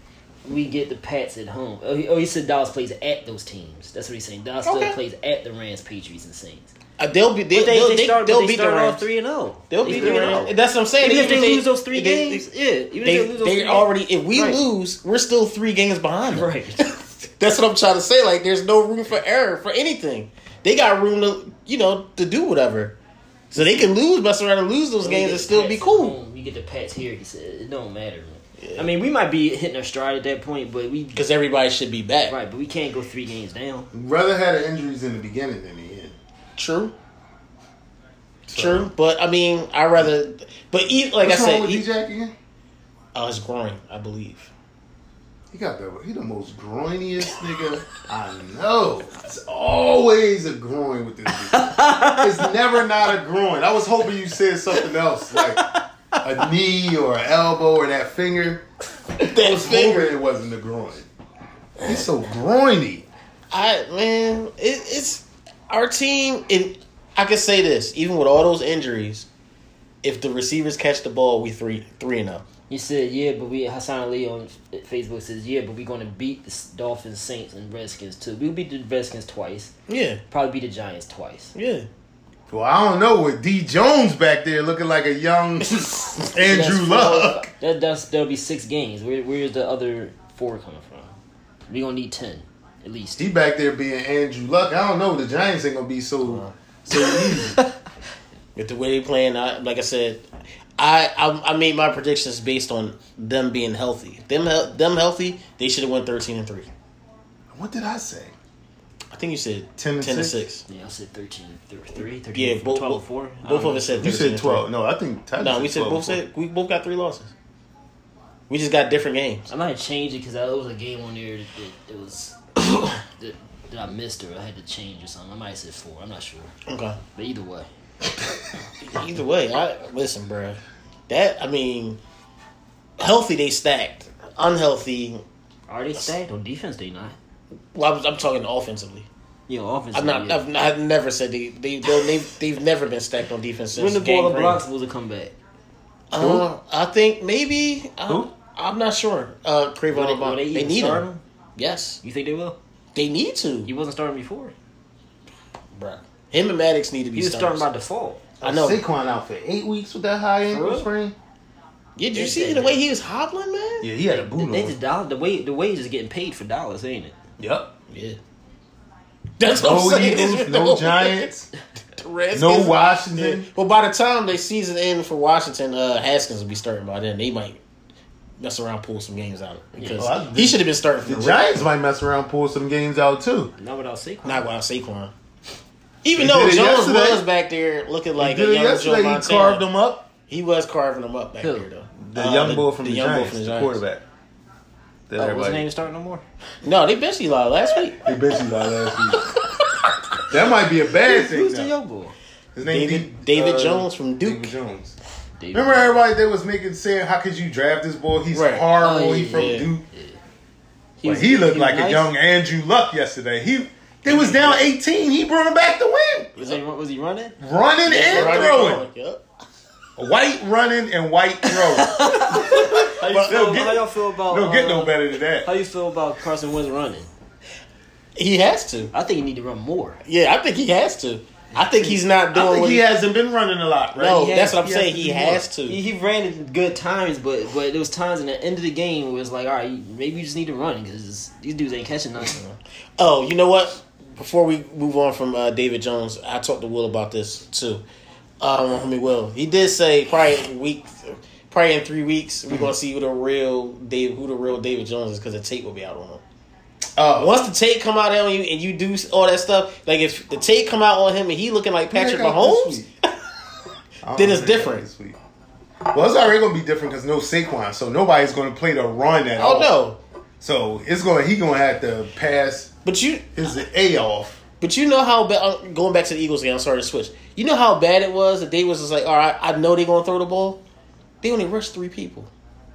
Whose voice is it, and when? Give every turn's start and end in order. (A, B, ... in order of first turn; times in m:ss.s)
0:00.4-0:06.7 A
0:04.6-0:05.0 B
0:07.0-0:09.1 B
0:07.5-0:14.6 A
0:09.7-0:12.4 B
0:13.0-0:16.5 B
0:16.3-0:17.0 A
0:17.4-0:23.0 B
0:23.5-0:26.2 B
0:25.0-0:31.2 A
0:28.6-0:28.9 B
0:31.2-0:32.4 B
0:32.3-0:33.9 A
0:33.9-0:36.2 C
0:36.6-0:36.9 B
0:38.5-0:38.9 C
0:38.5-0:41.9 B
0:41.2-0:42.3 C
0:43.1-0:44.5 B
0:45.5-0:55.6 C
0:51.4-0:52.5 A
0:56.2-0:58.6 C
0:59.2-1:00.2 B
0:59.2-1:01.1 C
1:01.8-1:03.1 C
1:03.5-1:09.3 B
1:10.0-1:12.4 B
1:12.7-1:19.7 A
1:19.9-1:20.2 B
1:20.3-1:21.5 A
1:21.6-1:21.9 B
1:22.5-1:27.5 C
1:26.2-1:31.1 A
1:31.7-1:33.3 A
1:33.2-1:37.6 C
1:36.2-1:36.5 B
1:37.0-1:37.7 A
1:38.6-1:40.3 B
1:40.8-1:46.7 B
1:47.5-1:48.3 C
1:49.1-1:50.6 B
1:49.8-1:50.4 C
1:50.7-1:54.1 A
1:52.3-1:54.7 B
1:54.0-1:56.2 C
1:55.4-1:57.3 B
1:58.5-1:59.5 B
1:59.5-2:06.5 A
2:06.7-2:07.0 B
2:07.2-2:07.7 A
2:08.8-2:12.0 B
2:13.0-2:15.2 B
2:15.7-2:17.2 A
2:17.7-2:19.1 B
2:19.5-2:20.4 A
2:19.9-2:24.6 B
2:23.8-2:25.4 A
2:26.1-2:31.0 B
2:26.2-2:26.4 C
2:29.9-2:31.2 A
2:31.6-2:32.0 B
2:32.0-2:32.6 A
2:33.0-2:33.7 B
2:33.7-2:34.5 A
2:35.8-2:37.7 B
2:37.1-2:38.2 A
2:38.4-2:38.8 B
2:38.4-2:41.2 C
2:40.5-2:40.8 B
2:40.5-2:40.8 A
2:42.0-2:43.9 B
2:42.1-2:42.8 A
2:43.8-2:44.8 C
2:44.1-2:47.2 A
2:47.4-2:47.8 C
2:47.9-2:48.2 B
2:49.4-2:51.3 B
2:49.5-2:51.5 C
2:52.0-2:57.6 B
2:52.3-2:53.5 C
2:58.4-3:01.6 B
2:59.8-3:00.1 A
3:00.0-3:03.5 C
3:03.6-3:04.4 A
3:04.2-3:05.1 B
3:06.0-3:09.6 B
3:06.2-3:07.2 C
3:08.2-3:10.1 C
3:10.3-3:13.8 B
3:11.4-3:11.7 A
3:12.0-3:14.0 C
3:15.1-3:15.7 C
3:15.2-3:16.2 A
3:16.6-3:18.0 B
3:18.0-3:19.2 C
3:20.3-3:21.7 C
3:21.1-3:22.2 A
3:22.6-3:25.0 C
3:22.6-3:24.6 B
3:25.4-3:26.0 A
3:25.5-3:29.8 C
3:28.3-3:28.7 B
3:28.8-3:30.2 A
3:29.3-3:29.7 B
3:31.0-3:32.1 A
3:31.0-3:36.3 C
3:34.1-3:34.6 A
3:34.1-3:34.6 B
3:36.4-3:37.4 A
3:37.4-3:38.8 C
3:37.9-3:39.2 B
3:38.2-3:38.4 A
3:40.0-3:45.5 C
3:41.5-3:47.1 A
3:48.2-3:48.9 B
3:48.9-3:50.0 A
3:50.0-3:52.9 B
3:51.7-3:55.5 C
3:54.0-3:55.8 B
3:55.7-4:02.4 A
4:02.2-4:07.8 B
4:08.4-4:16.2 B
4:17.0-4:17.4 C
4:17.2-4:22.8 B
4:21.9-4:22.9 C
4:24.0-4:25.2 C
4:24.2-4:24.8 B
4:25.9-4:29.8 C
4:29.4-4:30.0 B
4:30.4-4:32.7 C
4:32.8-4:33.3 B
4:33.4-4:34.4 C
4:34.6-4:40.6 B
4:41.2-4:42.3 B